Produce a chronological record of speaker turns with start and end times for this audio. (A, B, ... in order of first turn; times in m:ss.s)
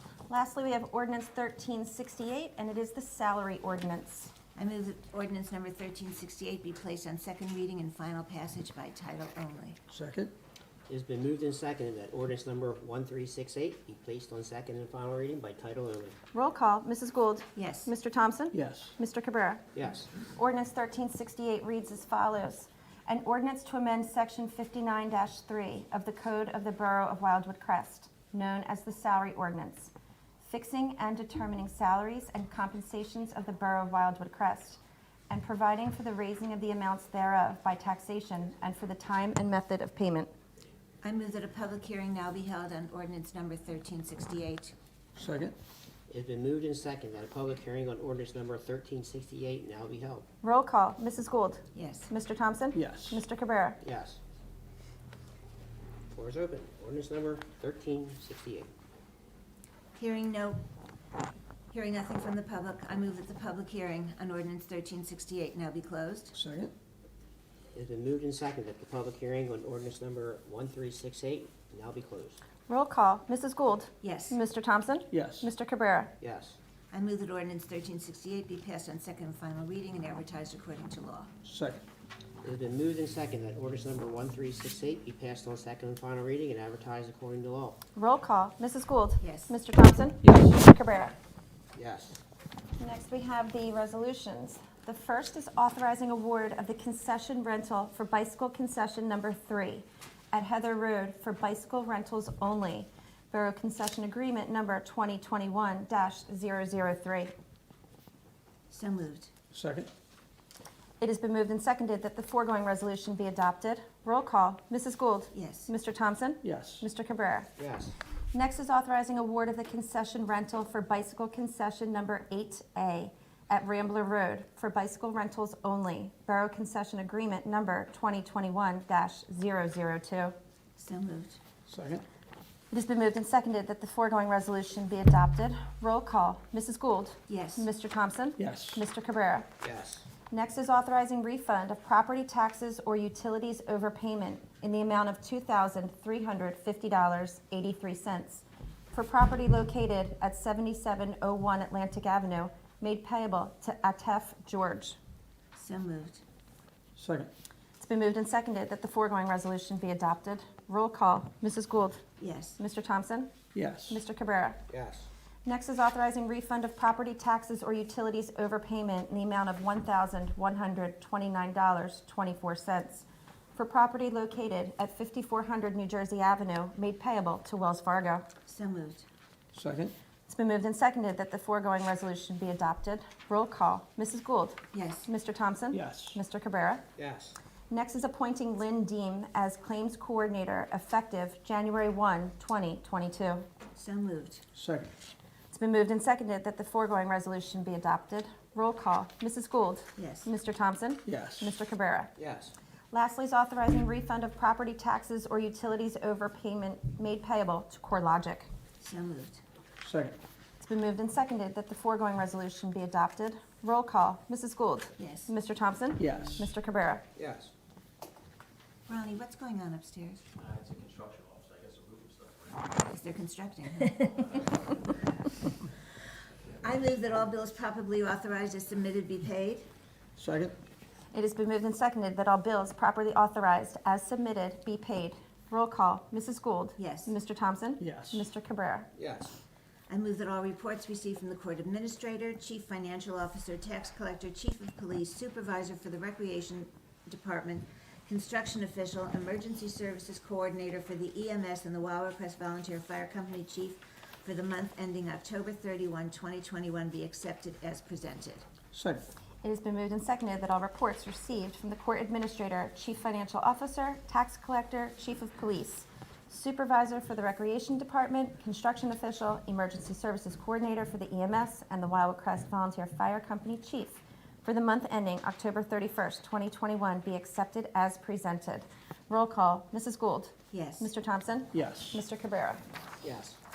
0:00.3-0:04.3 A
0:04.5-0:09.8 B
0:09.9-0:10.3 C
0:10.9-0:16.2 D
0:16.3-0:19.6 A
0:17.5-0:17.9 B
0:18.5-0:18.9 C
0:19.7-0:20.1 D
0:20.2-0:40.3 A
0:41.0-0:44.7 B
0:45.2-0:45.5 C
0:46.1-0:50.3 D
0:50.4-0:53.8 A
0:51.7-0:52.1 B
0:52.7-0:53.2 C
0:53.8-0:54.2 D
0:56.1-0:58.7 D
1:00.0-1:00.6 B
1:01.7-1:06.3 B
1:06.3-1:06.7 C
1:07.7-1:12.4 D
1:12.7-1:16.1 A
1:14.0-1:14.4 B
1:15.1-1:15.5 C
1:16.2-1:16.6 D
1:16.9-1:21.3 B
1:21.4-1:21.8 C
1:22.4-1:27.8 D
1:28.0-1:31.2 A
1:29.2-1:29.5 B
1:31.7-1:32.2 D
1:32.8-1:47.3 A
1:48.7-1:49.3 B
1:49.5-1:49.9 C
1:51.0-1:57.5 A
1:55.3-1:55.7 B
1:56.4-1:56.8 C
1:57.6-1:57.9 D
1:58.3-2:10.3 A
2:10.8-2:11.4 B
2:11.7-2:12.0 C
2:12.7-2:19.5 A
2:17.3-2:17.7 B
2:18.4-2:18.8 C
2:19.6-2:20.0 D
2:20.3-2:35.0 A
2:35.5-2:36.2 B
2:37.0-2:37.3 C
2:37.8-2:42.0 A
2:42.2-2:42.6 B
2:42.6-2:43.3 A
2:43.5-2:44.0 C
2:43.9-2:44.6 A
2:44.7-2:45.1 D
2:45.4-2:58.2 A
2:58.4-2:59.0 B
2:59.5-2:59.9 C
3:00.3-3:06.8 A
3:04.7-3:05.1 B
3:05.7-3:06.2 C
3:07.0-3:07.4 D
3:07.7-3:13.4 A
3:13.7-3:14.4 B
3:14.5-3:14.9 C
3:15.5-3:22.1 A
3:20.0-3:20.3 B
3:21.0-3:21.5 C
3:22.2-3:22.5 D
3:22.9-3:28.5 A
3:28.8-3:29.4 B
3:29.8-3:30.2 C
3:30.6-3:37.0 A
3:35.0-3:35.3 B
3:36.0-3:36.4 C
3:37.2-3:37.5 D
3:38.9-3:40.2 B
3:40.4-3:42.6 E
3:42.8-3:44.7 B
3:46.6-3:49.7 B
3:50.2-3:50.5 C
3:51.1-3:58.9 A
3:56.8-3:57.1 B
3:57.8-3:58.2 C
3:59.0-3:59.3 D
3:59.9-4:18.5 B
4:18.7-4:19.0 C
4:19.4-4:42.6 A
4:40.5-4:40.9 B
4:41.5-4:42.0 C
4:43.0-4:43.4 D